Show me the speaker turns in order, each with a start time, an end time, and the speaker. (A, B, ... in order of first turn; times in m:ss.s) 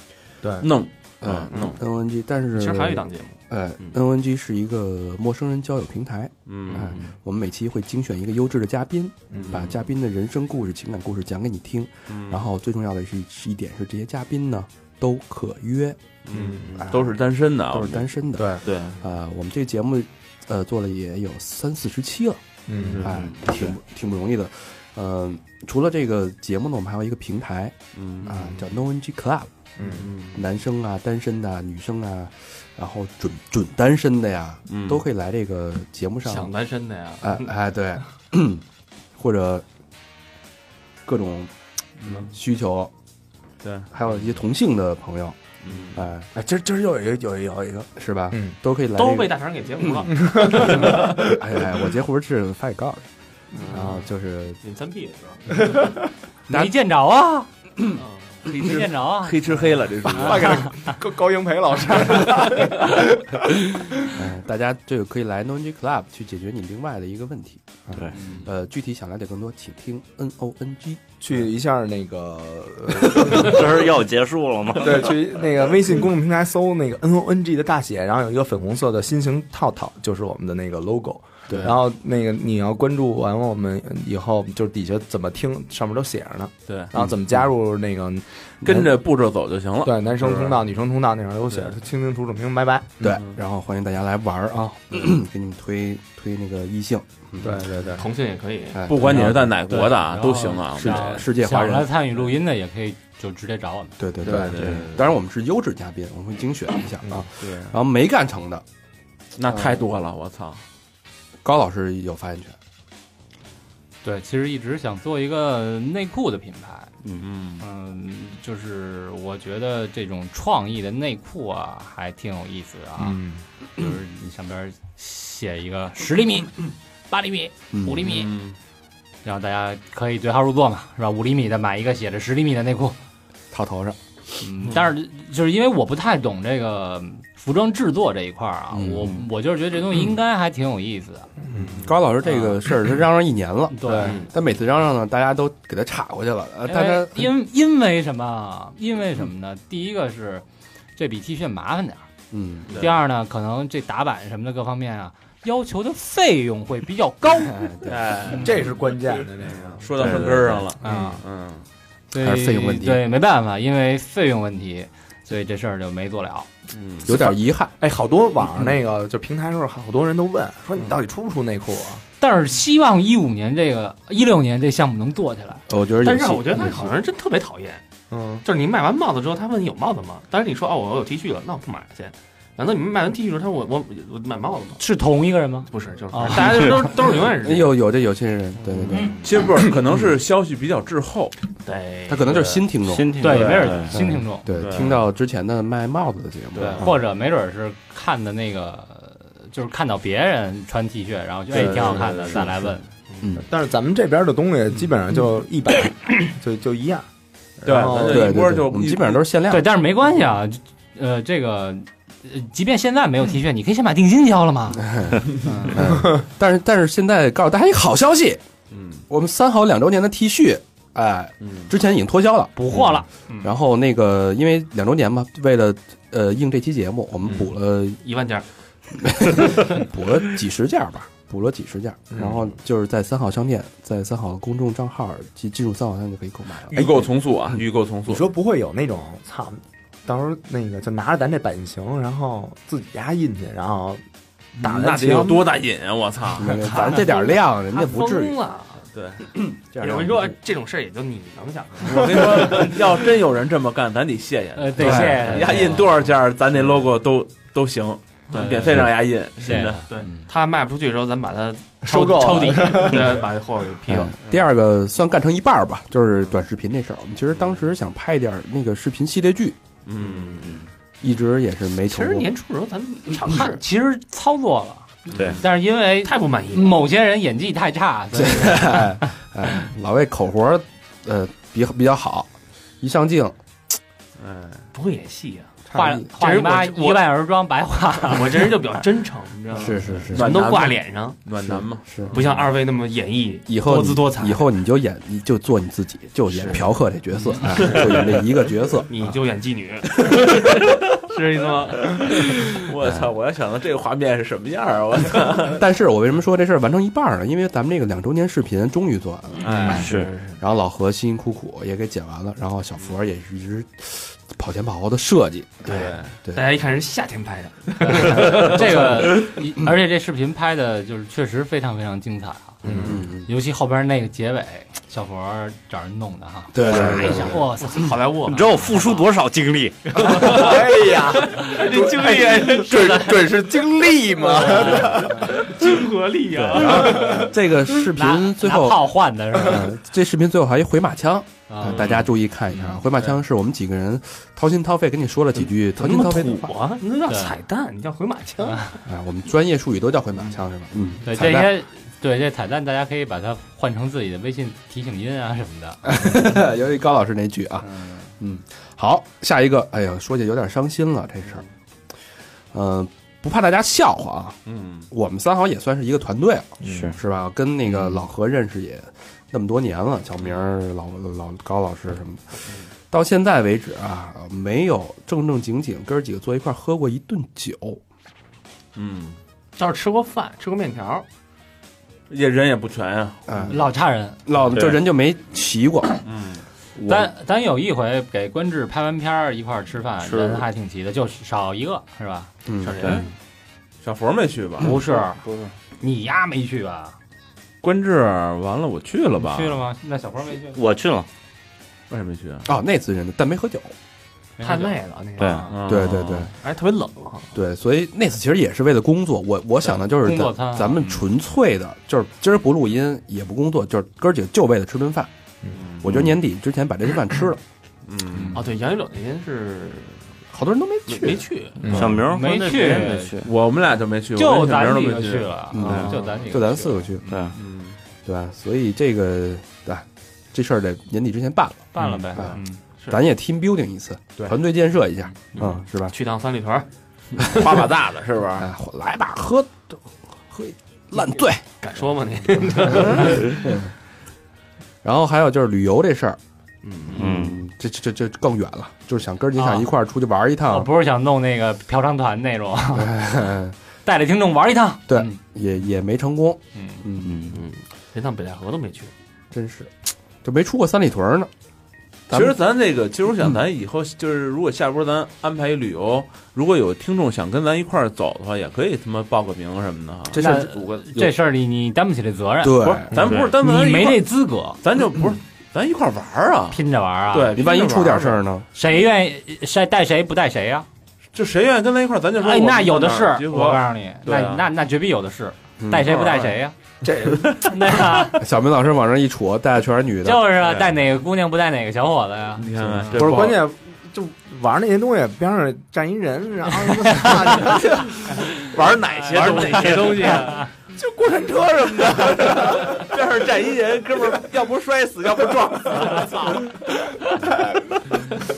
0:00.4-0:00.7 A
0:00.6-0:01.8 B
0:01.2-0:16.0 C
0:02.5-0:03.4 D
0:06.5-0:07.0 B
0:09.3-0:09.6 A
0:09.4-0:09.8 B
0:12.1-0:12.5 B
0:16.2-0:19.0 B
0:16.3-0:17.0 A
0:17.7-0:22.4 C
0:18.4-0:18.7 A
0:22.7-0:23.1 A
0:22.8-0:23.8 B
0:23.0-0:29.5 C
0:28.0-0:28.6 B
0:29.8-0:30.1 A
0:29.8-0:30.4 B
0:30.3-0:36.5 C
0:34.7-0:35.0 B
0:36.2-0:37.5 D
0:37.2-0:38.6 C
0:39.2-0:39.6 C
0:41.0-0:41.5 C
0:42.0-0:42.3 B
0:42.0-0:42.9 C
0:43.6-0:44.3 B
0:43.9-0:45.4 C
0:45.6-0:46.1 B
0:45.9-0:46.3 C
0:46.4-0:48.6 A
0:48.0-0:53.1 C
0:48.9-0:51.0 D
0:50.1-0:51.4 A
0:53.6-0:53.9 B
0:53.6-0:54.0 D
0:53.7-0:54.6 C
0:54.6-0:55.8 D
0:56.5-0:57.5 E
0:58.0-0:58.5 D
0:58.4-1:00.7 B
0:58.5-0:59.4 E
1:00.0-1:04.1 A
1:04.1-1:11.0 C
1:08.2-1:08.4 B
1:11.2-1:13.9 A
1:13.1-1:15.2 F
1:14.8-1:28.9 A
1:21.5-1:21.8 C
1:26.7-1:26.9 B
1:28.6-1:30.6 B
1:29.8-1:33.2 A
1:33.0-1:37.6 C
1:37.4-1:38.0 A
1:38.0-1:38.9 D
1:38.7-1:39.6 C
1:38.9-1:41.3 B
1:39.7-1:44.0 E
1:40.7-1:41.9 C
1:44.0-1:48.6 C
1:44.2-1:45.1 B
1:44.3-1:44.5 A
1:47.4-1:47.8 B
1:49.4-1:50.6 B
1:49.5-1:49.8 C
1:51.4-1:52.6 C
1:54.0-1:56.9 E
1:57.2-1:57.6 B
1:57.6-2:03.2 E
2:03.0-2:03.4 A
2:03.8-2:08.3 E
2:07.7-2:08.0 C
2:08.0-2:08.6 B
2:09.2-2:13.0 E
2:13.5-2:14.0 C
2:14.4-2:21.3 E
2:18.7-2:19.2 C
2:21.5-2:21.8 A
2:21.6-2:27.3 C
2:22.3-2:22.5 E
2:23.7-2:24.2 E
2:24.0-2:24.3 D
2:26.7-2:30.4 E
2:31.0-2:32.1 E
2:32.3-2:32.8 C
2:32.8-2:37.7 E
2:37.5-2:38.4 C
2:37.8-2:38.8 B
2:38.3-2:40.2 A
2:39.4-2:41.7 B
2:40.0-2:40.6 F
2:40.8-2:41.2 E
2:40.8-2:41.2 A
2:42.1-2:46.5 E
2:42.2-2:43.0 C
2:46.7-2:47.1 B
2:47.0-2:47.8 C
2:47.1-2:52.0 A
2:52.2-2:55.6 E
2:55.7-2:57.0 C
2:56.0-2:57.8 D
2:58.1-2:58.4 A
2:58.4-3:04.8 D
3:04.8-3:06.8 E
3:05.7-3:07.8 D
3:07.3-3:09.2 C
3:08.9-3:09.3 D
3:09.2-3:11.4 B
3:11.6-3:12.7 D
3:12.1-3:17.0 C
3:12.8-3:14.0 F
3:13.2-3:14.5 E
3:13.3-3:13.6 B
3:14.6-3:15.0 B
3:16.5-3:16.9 B
3:16.8-3:22.8 E
3:21.5-3:22.6 B
3:23.4-3:27.1 A
3:27.6-3:28.5 A
3:27.6-3:29.2 B
3:28.1-3:29.7 C
3:29.5-3:35.8 E
3:34.8-3:38.4 C
3:38.7-3:39.0 B
3:39.1-3:42.9 C
3:41.4-3:41.7 B
3:42.6-3:43.4 E
3:43.4-3:48.0 C
3:48.0-3:48.4 D
3:49.0-3:56.9 C
3:56.7-3:58.3 B
3:56.7-3:57.1 A
3:58.1-4:04.0 A
4:04.6-4:05.5 A
4:04.6-4:06.7 B
4:06.4-4:08.4 C
4:06.5-4:08.9 D
4:08.9-4:09.2 B
4:09.4-4:10.4 C
4:09.8-4:12.8 D
4:11.8-4:19.8 B
4:14.6-4:15.9 E
4:14.8-4:15.3 C
4:14.9-4:15.9 D
4:18.3-4:18.6 D
4:18.3-4:18.9 E
4:19.4-4:19.8 E
4:19.9-4:24.2 D
4:21.8-4:23.0 A
4:23.9-4:29.6 C
4:29.9-4:30.6 B
4:30.0-4:30.4 D
4:31.0-4:32.3 C
4:31.8-4:33.6 D
4:33.2-4:38.9 E
4:35.1-4:35.4 B
4:35.2-4:35.4 F
4:35.9-4:36.8 D
4:38.1-4:43.4 C
4:44.2-4:44.7 B
4:44.7-4:45.6 D
4:45.7-4:46.1 C
4:45.7-4:48.5 E
4:46.1-4:47.0 D
4:48.0-4:51.2 D
4:49.5-4:50.4 C
4:50.1-4:52.3 B
4:51.4-4:52.2 C
4:52.1-4:54.4 D
4:53.5-4:59.2 C
4:56.4-4:56.6 D
4:57.6-4:58.0 D
4:58.9-5:02.3 D
5:02.0-5:05.6 B
5:05.5-5:09.7 C
5:09.4-5:09.9 B
5:09.5-5:10.4 D
5:09.7-5:10.1 F
5:10.4-5:16.4 C
5:15.7-5:16.1 B
5:15.7-5:19.0 D
5:17.8-5:22.7 E
5:22.6-5:23.0 A
5:22.8-5:23.3 C
5:23.3-5:27.9 E
5:26.5-5:27.4 C
5:26.7-5:27.1 F
5:26.7-5:29.0 D
5:28.3-5:30.4 F
5:29.9-5:33.4 D
5:30.1-5:35.3 A
5:34.2-5:37.3 D
5:34.6-5:34.9 E
5:36.5-5:46.5 C
5:37.9-5:39.7 E
5:41.5-5:41.8 E
5:41.7-5:42.1 B
5:45.7-5:48.8 D
5:47.1-5:47.4 E
5:48.8-5:51.5 C
5:51.0-5:56.0 E
5:55.8-6:01.4 C
6:02.5-6:04.4 C
6:04.5-6:04.9 B
6:04.9-6:17.8 C
6:06.6-6:06.9 A
6:06.6-6:07.0 F
6:18.8-6:19.2 B
6:19.6-6:21.1 D
6:22.1-6:23.3 B
6:23.3-6:23.6 C
6:23.5-6:24.2 E
6:24.3-6:26.0 C
6:24.5-6:24.8 F
6:26.0-6:26.4 B
6:26.8-6:27.1 C
6:26.9-6:32.3 E
6:30.0-6:30.4 F
6:32.5-6:33.0 C
6:32.6-6:33.1 D
6:33.8-6:34.8 B
6:34.6-6:35.2 E
6:35.8-6:37.0 E
6:37.6-6:39.6 B
6:39.2-6:40.6 E
6:40.5-6:41.1 F
6:41.9-6:42.5 B
6:42.4-6:43.7 C
6:44.4-6:44.8 E
6:44.4-6:47.3 D
6:45.2-6:45.5 F
6:45.5-6:46.3 B
6:45.6-6:46.3 C
6:47.3-6:55.1 C
6:49.8-6:50.8 E
6:55.6-6:56.0 B
6:55.8-6:57.4 C
6:55.9-6:56.1 F
6:57.9-6:58.4 B
6:58.3-7:00.1 D
7:00.3-7:01.3 C
7:00.9-7:01.9 D
7:01.6-7:02.0 A
7:01.7-7:03.3 F
7:02.0-7:03.2 E
7:03.2-7:05.3 B
7:04.2-7:06.9 E
7:05.5-7:07.1 C
7:05.6-7:05.9 F
7:05.7-7:06.3 D
7:07.1-7:07.4 F
7:07.3-7:07.8 B
7:08.0-7:12.4 C
7:11.7-7:12.6 E
7:12.9-7:16.0 C
7:15.9-7:17.4 D
7:17.2-7:18.5 B
7:18.4-7:21.4 C
7:21.6-7:23.6 D
7:22.7-7:23.7 C
7:24.8-7:26.2 C
7:26.6-7:27.1 D
7:26.9-7:30.7 C
7:26.9-7:27.4 F
7:29.4-7:29.7 E
7:30.5-7:32.9 E
7:32.7-7:33.6 C
7:33.8-7:35.2 E
7:34.9-7:37.3 C
7:37.0-7:37.4 F
7:37.3-7:38.9 D
7:39.3-7:41.3 C
7:42.1-7:42.4 C
7:42.1-7:51.0 B
7:50.1-7:51.0 C
7:50.1-7:54.6 E
7:52.4-7:53.0 C
7:52.6-7:54.1 B
7:54.6-7:56.6 B
7:56.5-7:57.4 E
7:57.1-7:58.2 D
7:57.4-7:58.5 C
7:58.6-8:00.7 E
8:01.1-8:04.5 B
8:02.2-8:06.6 E
8:05.6-8:06.0 C
8:05.9-8:06.3 B
8:06.8-8:07.5 A
8:07.4-8:08.2 E
8:08.1-8:10.4 C
8:10.0-8:12.9 E
8:10.4-8:10.7 B
8:12.4-8:13.4 B
8:12.6-8:13.1 C
8:13.0-8:19.3 A
8:18.4-8:20.5 D
8:18.5-8:20.2 B
8:19.7-8:20.5 E
8:20.8-8:22.9 A
8:21.9-8:26.5 B
8:26.0-8:26.4 D
8:27.0-8:27.9 A